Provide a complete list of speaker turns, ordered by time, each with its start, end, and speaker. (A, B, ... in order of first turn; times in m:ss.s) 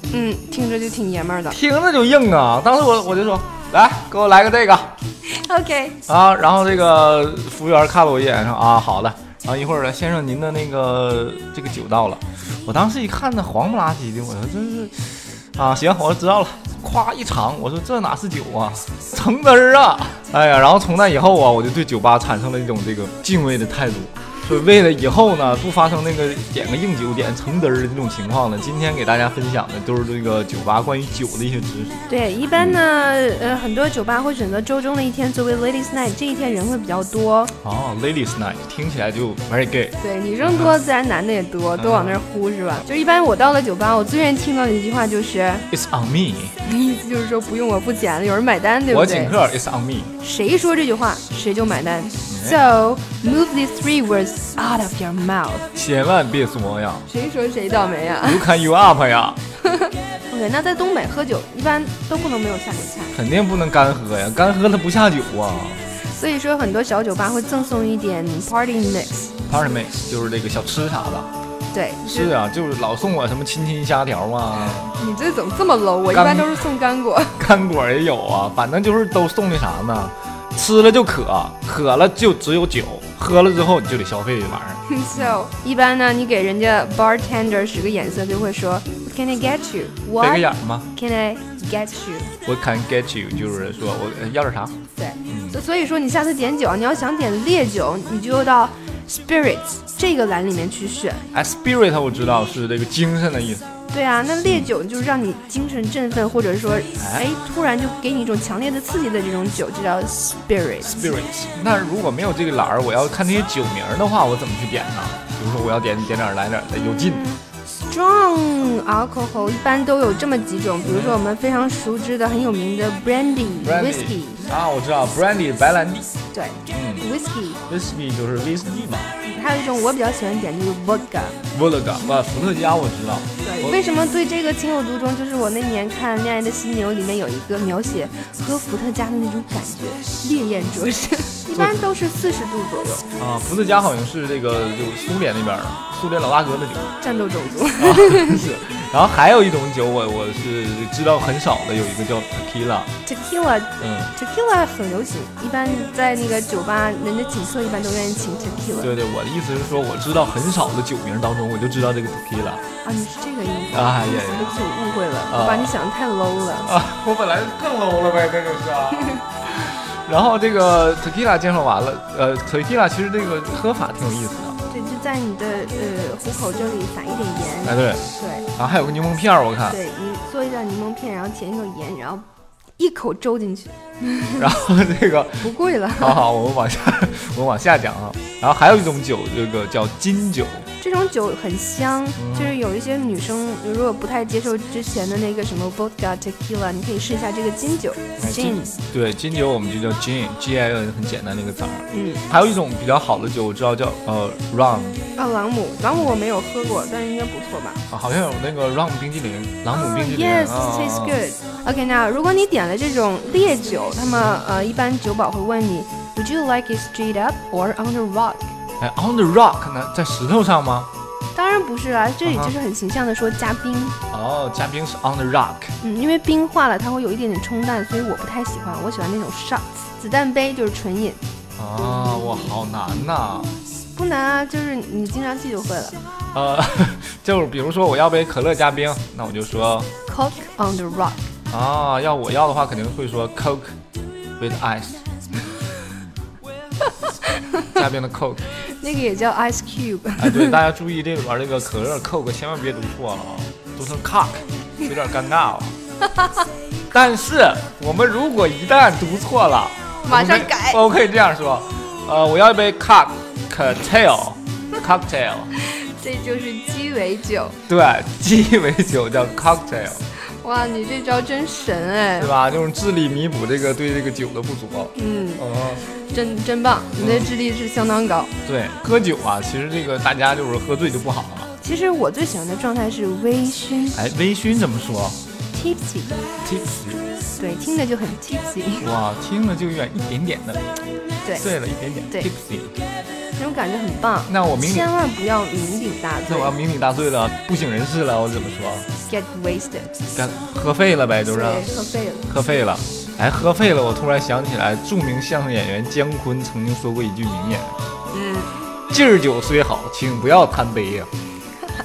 0:00.1-0:01.6 A
0:01.5-0:05.0 B
0:05.3-0:06.0 A
0:06.1-0:32.0 B
0:32.1-0:37.5 A
0:37.6-0:40.8 B
0:40.0-0:45.7 A
0:41.8-0:42.2 B
0:45.7-0:46.6 B
0:46.6-0:49.4 A
0:48.9-0:50.1 B
0:50.2-0:55.7 A
0:52.3-0:52.6 B
0:55.8-0:57.1 B
0:57.1-0:58.4 A
0:58.2-0:59.4 B
0:59.6-1:03.1 A
1:03.1-1:05.8 B
1:06.0-1:09.3 A
1:09.5-1:11.3 B
1:11.7-1:12.3 A
1:12.0-1:14.9 B
1:14.8-1:17.4 A
1:16.1-1:16.7 B
1:17.3-1:25.4 B
1:24.9-1:32.3 A
1:30.2-1:30.9 B
1:32.4-1:35.6 B
1:35.0-1:41.2 A
1:41.3-1:43.7 B
1:43.9-1:51.1 A
1:44.4-1:44.7 B
1:47.0-1:47.3 B
1:50.8-1:57.3 B
1:57.2-2:04.4 A
2:00.8-2:01.2 B
2:03.6-2:06.1 B
2:06.3-2:07.6 A
2:06.7-2:07.0 B
2:07.7-2:09.2 B
2:09.2-2:11.4 A
2:11.5-2:13.8 B
2:13.4-2:23.1 A
2:21.5-2:21.8 B
2:23.2-2:26.9 B
2:27.0-2:28.4 A
2:27.8-2:32.9 B
2:33.0-2:38.9 A
2:33.8-2:34.1 B
2:38.8-2:42.6 B
2:42.8-2:46.7 A
2:43.7-2:44.6 B
2:45.3-2:45.7 B
2:46.6-2:54.6 B
2:54.7-2:58.5 A
2:57.6-2:59.8 B
2:59.7-3:02.2 A
3:02.8-3:04.5 A
3:04.4-3:10.7 B
3:05.4-3:06.2 A
3:10.8-3:18.7 A
3:12.2-3:12.6 B
3:18.2-3:25.0 B
3:21.9-3:22.2 A
3:25.2-3:27.8 A
3:27.9-3:31.2 B
3:29.7-3:38.5 A
3:38.8-3:40.9 B
3:41.4-3:44.0 A
3:42.2-3:42.6 B
3:44.1-3:45.8 B
3:45.8-3:51.2 A
3:51.6-3:53.6 B
3:53.9-3:56.0 A
3:56.3-3:59.9 B
4:00.1-4:01.3 A
4:01.5-4:03.8 B
4:04.4-4:05.0 B
4:07.7-4:08.4 B
4:08.6-4:10.6 A
4:10.2-4:15.7 B
4:16.9-4:25.5 B
4:20.0-4:20.8 A
4:25.6-4:27.6 A
4:27.7-4:30.0 B
4:30.2-4:32.3 A
4:32.2-4:35.9 B
4:35.0-4:38.3 A
4:37.0-4:37.3 B
4:38.4-4:41.5 B
4:41.6-4:44.0 A
4:44.0-4:45.2 B
4:45.5-4:46.2 A
4:46.4-4:47.0 B
4:47.4-4:48.9 A
4:48.8-4:50.6 B
4:51.4-4:52.8 B
4:53.4-4:56.6 A
4:54.3-4:54.9 B
4:56.3-4:58.9 B
4:59.1-4:59.9 A
5:00.1-5:01.7 B
5:01.3-5:02.3 A
5:02.3-5:07.8 B
5:08.1-5:08.6 A
5:08.9-5:11.1 B